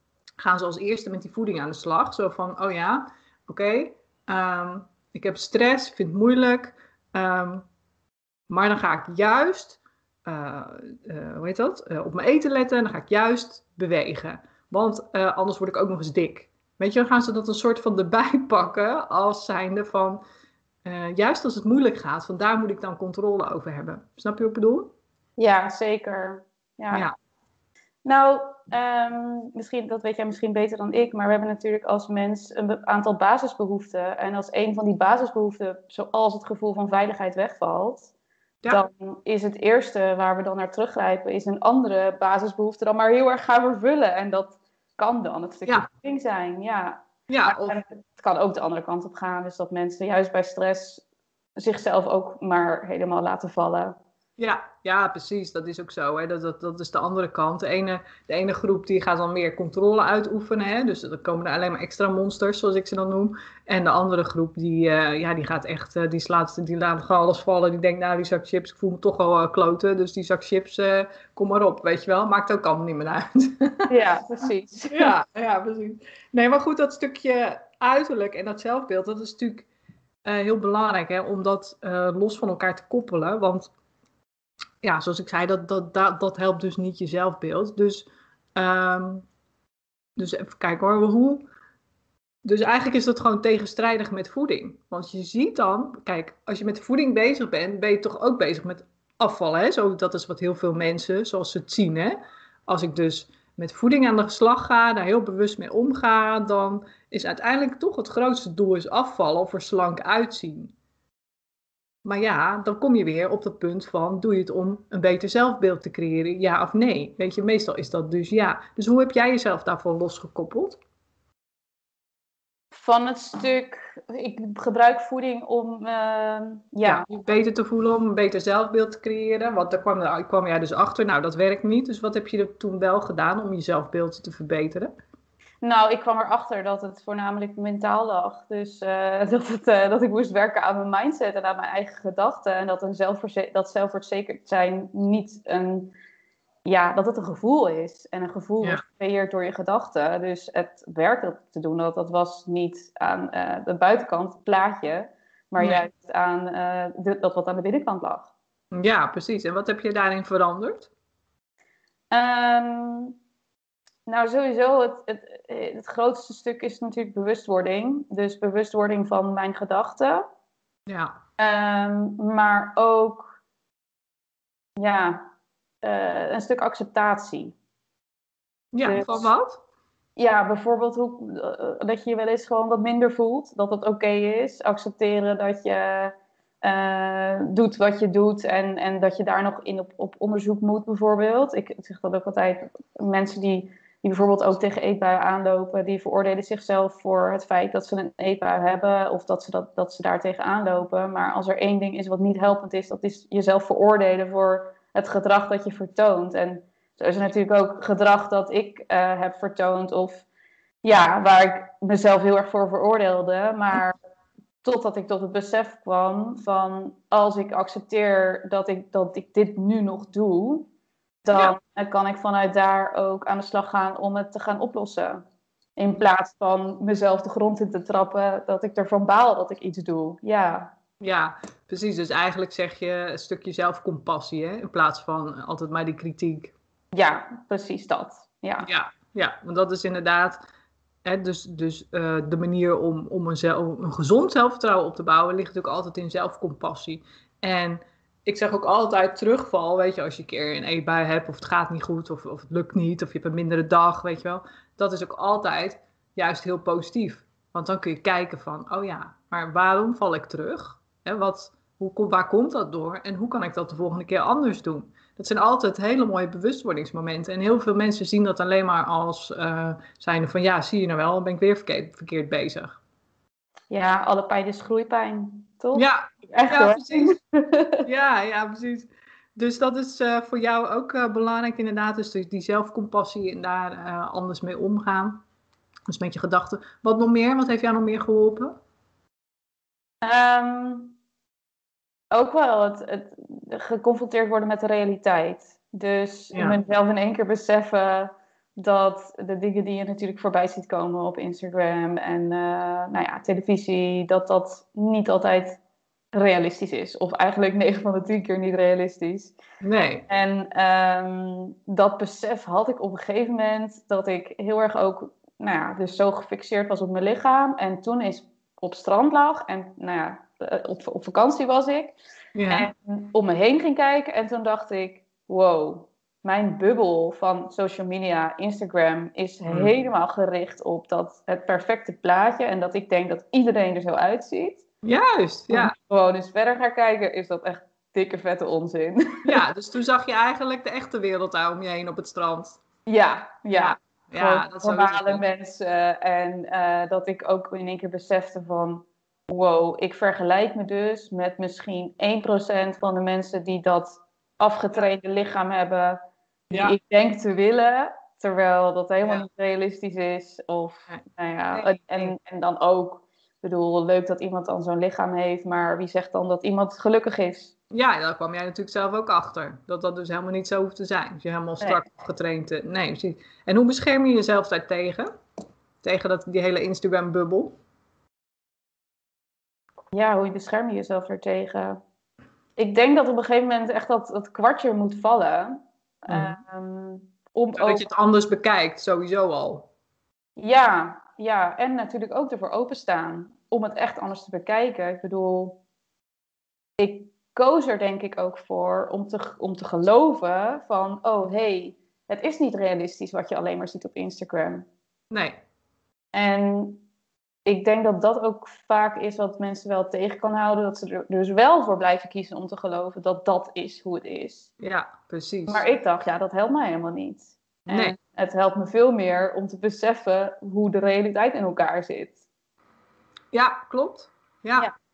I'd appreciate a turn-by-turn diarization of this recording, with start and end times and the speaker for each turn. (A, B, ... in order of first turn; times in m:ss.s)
0:00.4-0:07.6 A
0:08.5-0:20.2 A
0:20.8-0:24.9 A
0:25.4-0:27.0 B
0:28.0-0:38.1 B
0:38.7-0:51.0 B
0:47.3-0:47.8 A
0:51.6-0:54.0 B
0:54.4-1:13.9 A
1:13.9-1:15.1 B
1:14.9-1:19.7 A
1:20.2-1:23.7 A
1:24.8-1:29.2 A
1:30.2-1:31.4 A
1:32.4-1:50.7 A
1:52.0-2:00.8 A
2:02.7-2:07.0 B
2:06.8-2:14.9 A
2:15.6-2:25.9 B
2:26.6-2:38.3 B
2:35.6-2:35.8 A
2:38.7-2:40.9 A
2:42.1-2:43.2 B
2:44.0-2:50.2 B
2:50.9-2:51.2 A
2:51.4-2:53.3 B
2:54.8-2:55.2 B
2:55.8-2:57.6 B
2:58.7-2:59.6 A
2:58.8-2:59.3 B
3:00.2-3:30.2 B
3:30.8-3:33.9 B
3:34.6-3:40.7 B
3:41.2-3:45.2 B
3:45.8-3:50.7 B
3:51.0-3:56.5 A
3:56.9-3:58.7 B
3:58.6-4:00.4 A
4:01.0-4:32.8 A
4:33.7-4:37.8 B
4:35.7-4:37.2 A
4:37.8-4:45.2 A
4:45.9-4:48.6 A
4:50.0-4:51.0 B
4:52.1-5:05.6 B
4:56.3-4:56.6 A
5:06.1-5:09.3 B
5:09.6-5:10.1 A
5:10.1-5:22.0 B
5:22.3-5:22.7 A
5:22.5-5:34.6 B
5:29.5-5:29.7 A
5:34.8-5:35.7 A
5:35.5-5:39.4 B
5:39.2-5:42.6 A
5:42.8-5:56.0 B
5:43.5-5:45.2 A
5:56.5-5:56.8 A
5:56.5-6:07.5 B
6:00.9-6:02.1 A
6:07.7-6:15.1 A
6:15.8-6:17.5 A
6:19.9-6:21.8 B
6:22.6-6:27.8 B
6:26.1-6:26.4 A
6:27.5-6:29.7 A
6:30.4-6:35.6 B
6:36.8-6:44.6 B
6:45.1-6:45.4 A
6:46.1-6:46.8 B
6:47.4-6:54.5 B
6:54.6-6:55.6 A
6:55.5-7:02.2 B
6:57.7-6:58.0 A
7:03.3-7:04.7 A